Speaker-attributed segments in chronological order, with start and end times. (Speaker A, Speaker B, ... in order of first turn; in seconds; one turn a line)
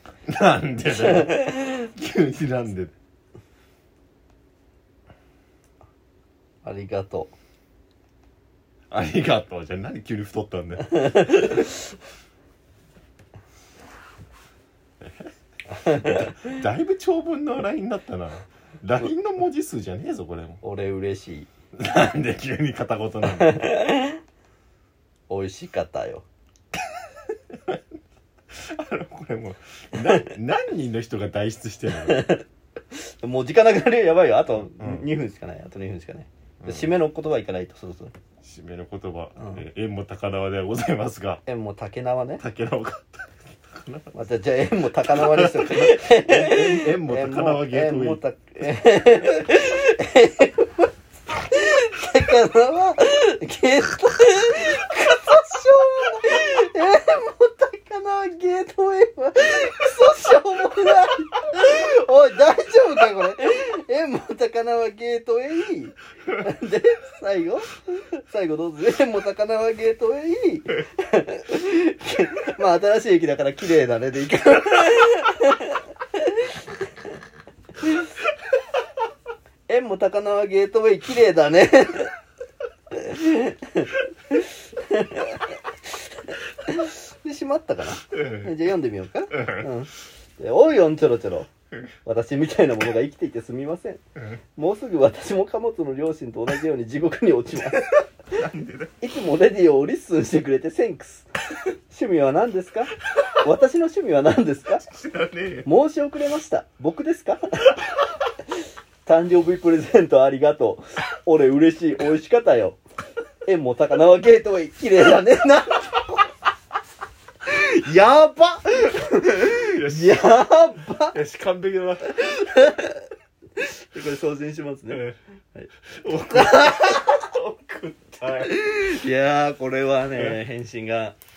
Speaker A: 0.3-2.9
Speaker B: 0.9-1.6
Speaker B: 6.6-7.3
Speaker A: 8.9-11.7
Speaker B: 10.9-11.7
Speaker B: 15.7-16.4
Speaker A: 15.9-20.6
Speaker B: 20.6-21.5
Speaker A: 21.8-23.7
Speaker B: 23.3-24.2
Speaker B: 25.3-26.2
Speaker A: 28.5-32.3
Speaker B: 31.9-38.1
Speaker A: 34.8-35.1
Speaker A: 36.6-36.9
Speaker A: 38.4-41.4
Speaker B: 39.4-39.6
Speaker B: 41.5-42.4
Speaker A: 42.4-44.1
Speaker B: 44.1-76.5
Speaker A: 45.1-48.2
Speaker B: 79.7-82.2
Speaker B: 82.9-91.5
Speaker A: 88.1-88.6
Speaker A: 89.3-89.7
Speaker B: 92.0-94.0
Speaker B: 94.6-97.9
Speaker A: 97.7-99.0
Speaker B: 99.0-101.3
Speaker B: 101.9-104.8
Speaker A: 103.1-103.4
Speaker A: 104.8-105.7
Speaker B: 105.7-107.8
Speaker B: 109.0-112.8
Speaker B: 113.5-116.3
Speaker B: 117.5-121.2
Speaker A: 119.5-120.3
Speaker A: 121.1-122.2
Speaker B: 122.1-125.0
Speaker A: 124.9-125.2
Speaker B: 125.5-127.1
Speaker A: 126.0-128.9
Speaker B: 128.4-131.2
Speaker A: 130.2-130.4